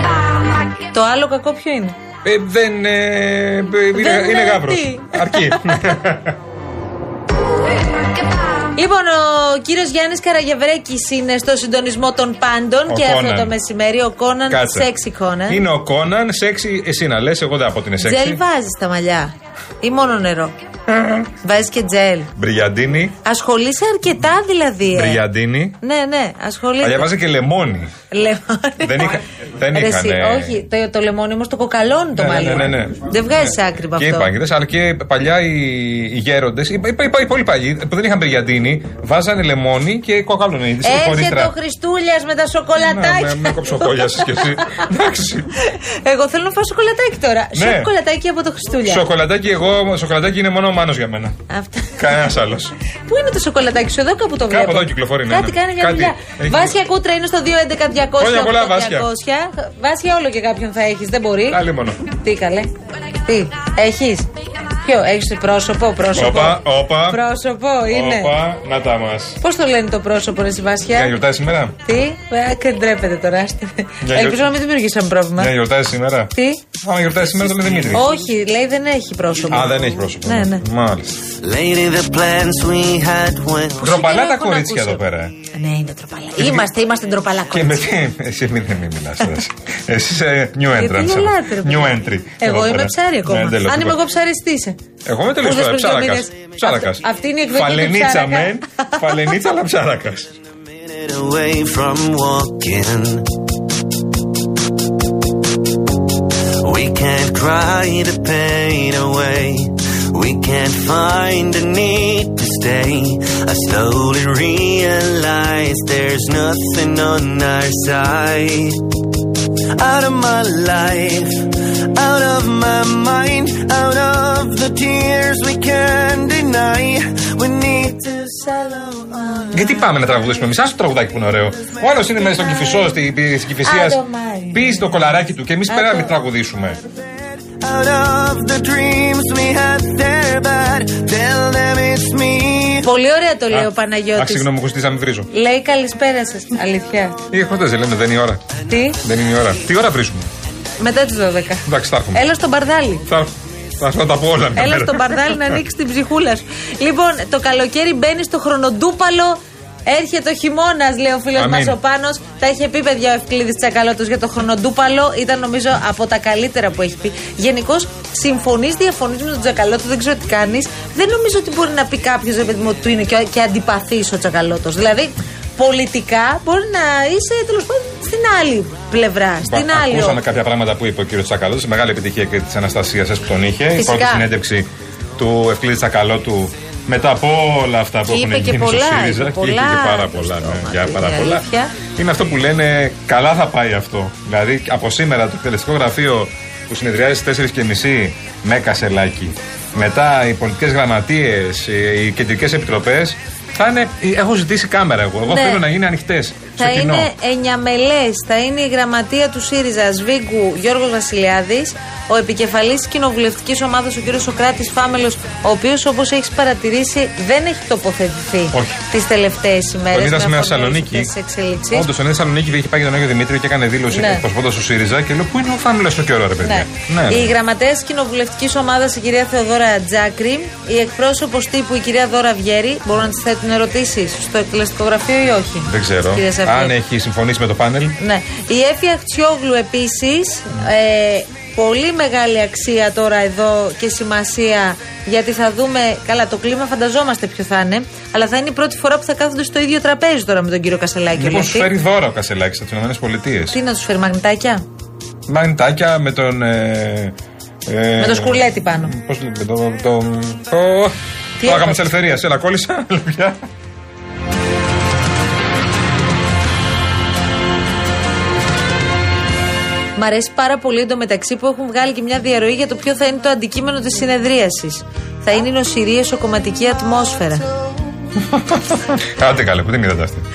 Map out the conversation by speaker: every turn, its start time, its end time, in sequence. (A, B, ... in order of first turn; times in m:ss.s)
0:00.9-0:02.0 A
0:02.2-0:06.4 B
0:03.9-0:06.0 A
0:08.8-0:15.6 A
0:12.9-0:13.5 B
0:14.5-0:14.9 B
0:15.5-0:18.4 B
0:18.0-0:20.6 A
0:21.4-0:22.3 A
0:22.4-0:23.2 B
0:23.2-0:25.2 A
0:24.9-0:25.8 B
0:25.8-0:27.1 A
0:26.8-0:27.9 B
0:28.1-0:29.2 A
0:28.8-0:30.6 B
0:29.7-0:34.3 A
0:32.2-0:41.5 B
0:40.8-0:44.8 A
0:42.8-0:45.5 B
0:45.7-0:49.0 A
0:47.6-0:47.9 B
0:48.8-0:51.4 B
0:51.5-0:52.0 A
0:52.0-0:52.8 B
0:53.1-1:02.7 A
0:54.5-0:56.8 B
0:58.2-0:59.1 B
1:01.5-1:02.0 B
1:03.2-1:04.3 A
1:04.8-1:08.4 A
1:06.2-1:07.2 B
1:07.9-1:09.4 B
1:09.4-1:11.2 A
1:10.9-1:11.8 B
1:11.8-1:15.5 A
1:14.0-1:14.5 B
1:15.4-1:18.1 B
1:16.3-1:16.6 A
1:17.9-1:20.6 A
1:19.5-1:21.2 B
1:21.4-1:23.9 C
1:23.8-1:25.4 B
1:23.8-1:28.0 A
1:26.4-1:26.7 B
1:27.5-1:34.0 B
1:30.7-1:34.8 A
1:35.0-1:40.3 B
1:35.4-1:39.3 A
1:40.9-1:43.3 C
1:46.6-1:58.8 C
1:59.8-2:08.0 C
2:08.0-2:09.5 A
2:09.5-2:16.8 B
2:13.6-2:14.7 A
2:15.7-2:16.1 A
2:17.6-2:22.9 C
2:22.8-2:24.5 A
2:23.5-2:25.3 B
2:25.3-2:27.2 A
2:27.3-2:28.4 B
2:28.7-2:29.0 A
2:29.0-2:30.3 B
2:30.8-2:33.1 A
2:31.7-2:32.2 B
2:33.1-2:35.6 B
2:34.6-3:00.2 A
2:41.4-2:41.8 B
2:59.4-3:27.1 B
3:03.8-3:04.3 A
3:08.1-3:11.7 A
3:25.3-3:25.6 A
3:26.6-3:41.9 A
3:38.5-3:38.8 B
3:39.9-3:41.1 B
3:41.7-3:47.4 B
3:43.9-3:44.2 A
3:46.4-3:56.8 A
3:55.7-3:58.0 B
3:58.0-4:11.7 A
4:11.2-4:13.6 B
4:13.5-4:14.6 A
4:15.3-4:17.1 B
4:17.7-4:23.4 B
4:18.0-4:18.9 A
4:21.4-4:21.8 A
4:30.0-4:37.5 A
4:38.3-4:40.2 B